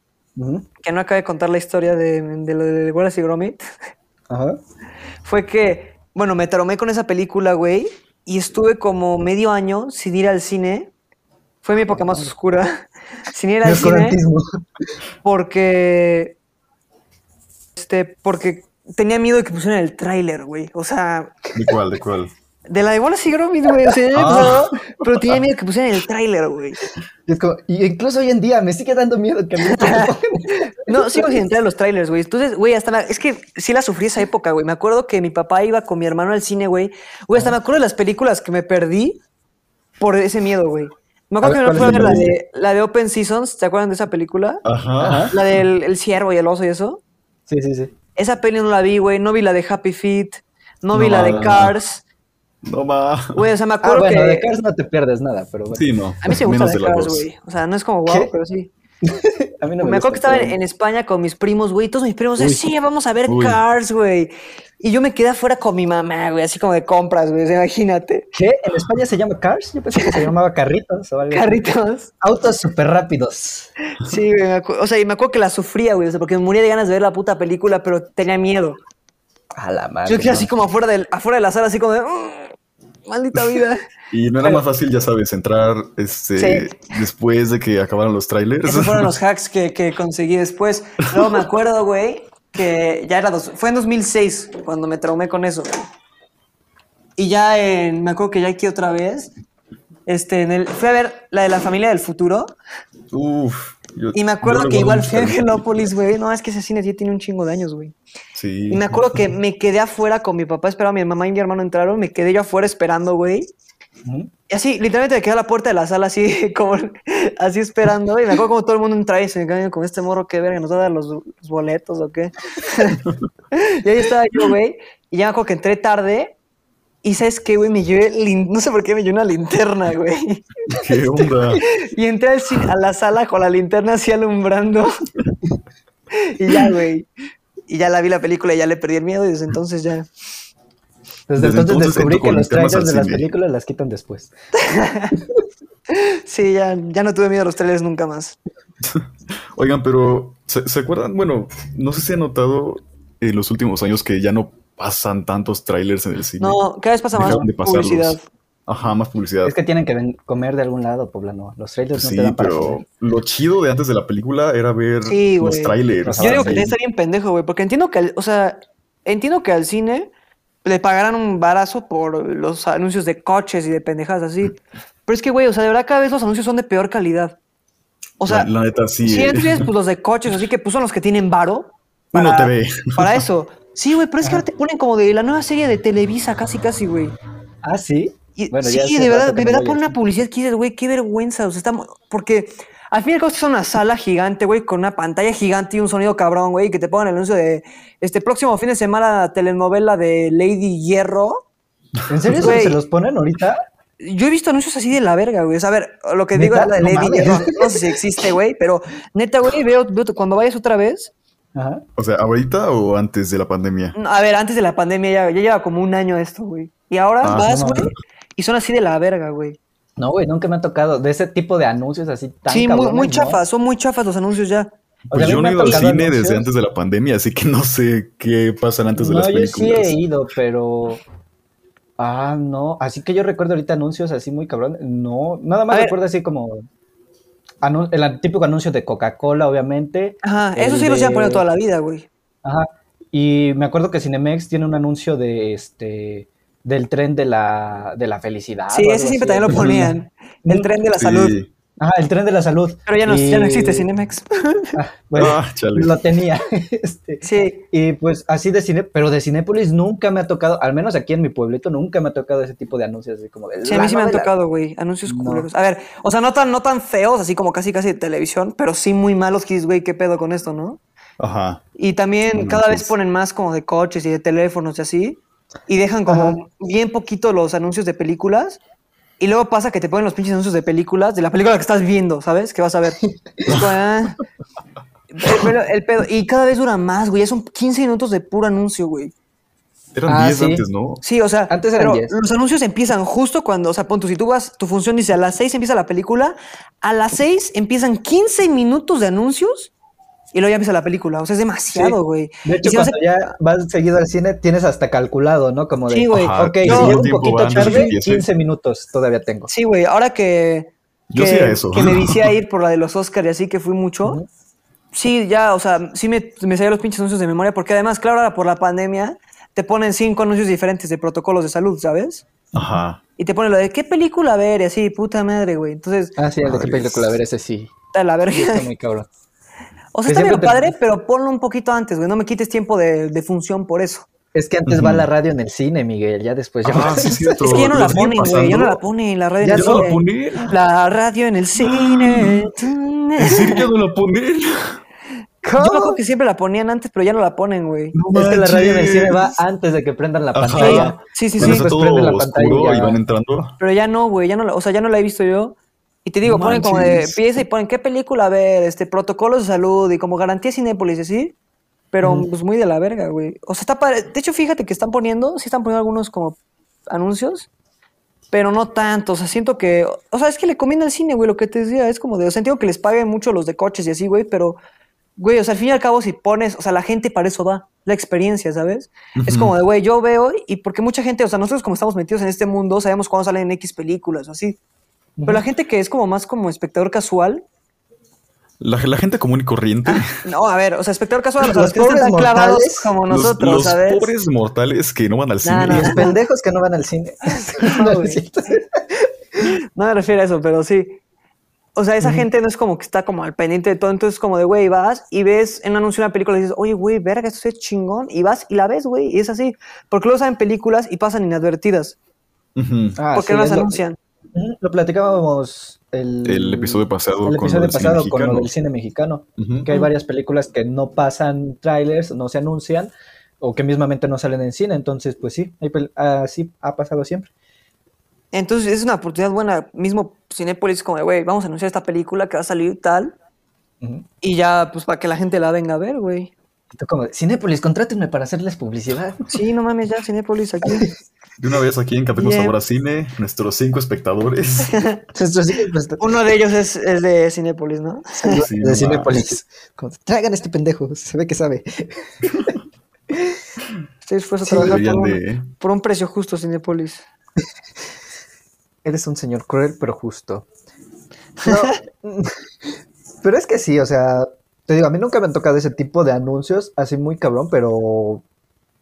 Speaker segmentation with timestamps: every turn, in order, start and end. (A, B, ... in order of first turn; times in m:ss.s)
0:00.4-0:00.7 A
0:00.8-0:03.6 B
0:04.3-0:04.6 A
0:05.2-0:10.9 B
0:11.6-0:12.8 B
0:11.9-0:12.3 A
0:13.3-0:14.2 B
0:13.6-0:14.4 A
0:15.2-0:16.4 B
0:17.8-0:21.6 B
0:21.6-0:22.3 C
0:22.7-0:26.8 B
0:24.1-0:25.4 C
0:27.3-0:31.3 A
0:29.6-0:30.1 B
0:30.9-0:39.2 B
0:40.0-0:44.6 B
0:41.4-0:42.3 A
0:41.8-0:42.3 C
0:44.6-0:45.6 C
0:45.0-0:45.3 A
0:45.3-0:47.0 B
0:47.5-0:47.9 A
0:48.2-0:52.0 B
0:50.9-0:51.8 C
0:51.1-0:51.5 A
0:52.6-0:53.4 C
0:53.4-0:54.5 B
0:53.8-0:55.8 A
0:55.7-0:57.3 C
0:56.2-0:58.7 B
0:58.1-0:58.3 A
0:59.0-1:00.6 A
0:59.8-1:08.3 B
1:02.4-1:02.6 A
1:03.3-1:03.6 C
1:08.3-1:11.6 A
1:10.0-1:10.3 B
1:11.3-1:12.1 B
1:12.2-1:13.7 A
1:14.0-1:18.8 B
1:19.6-1:20.5 A
1:20.1-1:22.5 B
1:23.1-1:23.8 B
1:24.1-1:29.1 C
1:26.4-1:26.8 B
1:28.6-1:35.8 B
1:37.2-1:39.3 B
1:40.1-1:42.5 B
1:43.1-1:45.6 C
1:44.1-1:48.0 B
1:48.4-1:49.0 C
1:48.7-1:53.5 B
1:54.0-1:54.3 A
1:54.5-2:03.0 B
2:03.5-2:06.4 B
2:07.0-2:10.4 B
2:10.7-2:11.6 C
2:11.6-2:14.9 B
2:16.2-2:17.1 B
2:17.7-2:20.1 B
2:21.3-2:24.3 A
2:21.4-2:23.3 C
2:24.6-2:25.1 B
2:25.9-2:28.4 B
2:28.8-2:36.6 C
2:36.4-2:38.2 B
2:37.1-2:39.5 C
2:39.4-2:42.8 A
2:42.0-2:46.7 C
2:45.0-2:50.1 B
2:46.0-2:46.7 A
2:50.6-2:57.4 B
2:58.2-2:58.5 B
2:58.3-2:59.7 C
2:59.0-3:07.2 B
3:02.1-3:03.2 C
3:07.6-3:10.0 A
3:08.4-3:21.4 B
3:22.1-3:23.6 A
3:22.2-3:22.5 C
3:22.4-3:22.8 B
3:24.0-3:31.1 B
3:26.3-3:27.8 A
3:31.6-3:31.8 A
3:32.0-3:34.0 C
3:34.0-3:39.6 B
3:37.2-3:37.5 C
3:37.3-3:37.9 A
3:40.0-3:43.4 A
3:42.5-3:44.7 B
3:45.1-3:50.0 C
3:45.1-3:46.5 A
3:45.6-3:45.8 B
3:49.0-3:51.0 A
3:52.0-3:56.7 A
3:55.7-3:56.0 B
3:57.6-4:01.4 A
4:00.2-4:02.1 B
4:02.4-4:10.7 A
4:08.7-4:11.4 B
4:11.0-4:11.5 C
4:11.8-4:13.9 A
4:12.9-4:14.8 B
4:14.8-4:24.3 A
4:15.2-4:16.0 C
4:17.2-4:17.6 B
4:23.6-4:30.8 B
4:25.1-4:25.5 A
4:31.2-4:31.6 C
4:31.8-4:38.6 B
4:32.3-4:32.9 C
4:36.1-4:36.4 A
4:39.2-4:44.2 B
4:45.1-4:49.1 B
4:49.9-4:51.0 C
4:50.1-4:50.6 A
4:51.0-4:59.7 B
4:51.5-4:52.1 A
5:00.3-5:03.0 B
5:01.7-5:09.5 A
5:05.9-5:07.9 B
5:06.1-5:08.2 C
5:09.5-5:14.2 B
5:11.1-5:12.3 C
5:14.9-5:22.2 B
5:22.5-5:23.0 C
5:23.2-5:26.2 B
5:26.2-5:27.7 A
5:26.4-5:27.2 C
5:27.9-5:28.7 B
5:28.3-5:29.1 A
5:29.9-5:34.1 B
5:30.1-5:30.7 A
5:34.3-5:37.6 A
5:34.7-5:35.1 C
5:36.6-5:38.8 C
5:37.4-5:43.7 B
5:39.4-5:39.9 A
5:39.5-5:40.5 C
5:41.6-5:42.5 C
5:43.2-5:44.8 C
5:45.4-5:46.0 A
5:45.5-5:48.0 B
5:47.9-5:49.4 C
5:48.1-5:53.0 A
5:50.3-5:53.6 C
5:50.6-5:51.7 B
5:53.6-6:01.4 B
5:56.3-5:57.2 C
5:56.4-5:56.7 A
6:01.9-6:06.4 B
6:02.0-6:02.3 A
6:06.9-6:07.5 B
6:08.3-6:14.6 B
6:15.2-6:24.6 B
6:19.2-6:19.5 C
6:25.2-6:25.4 A
6:25.3-6:27.4 B
6:28.6-6:30.2 C
6:29.9-6:34.1 B
6:31.4-6:32.9 A
6:33.1-6:36.1 C
6:35.4-6:36.2 B
6:35.7-6:39.1 A
6:37.6-6:38.2 B
6:39.8-6:41.0 B
6:41.8-6:52.0 B
6:52.6-6:53.0 C
6:53.0-6:53.8 A
6:53.1-6:54.0 B
6:54.4-7:07.3 A
6:56.2-6:58.5 C
6:59.4-6:59.7 C
7:08.3-7:13.2 B
7:14.2-7:16.3 B
7:16.8-7:19.2 A
7:19.3-7:20.9 B
7:21.4-7:24.7 C
7:22.2-7:22.6 B
7:24.7-7:25.0 B
7:25.2-7:26.0 A
7:26.0-7:28.4 B
7:28.2-7:32.6 A
7:28.3-7:29.2 C
7:34.0-7:37.0 B
7:34.5-7:34.8 A
7:34.5-7:35.5 C
7:38.8-7:40.5 A
7:41.4-7:41.8 B
7:41.4-7:48.2 A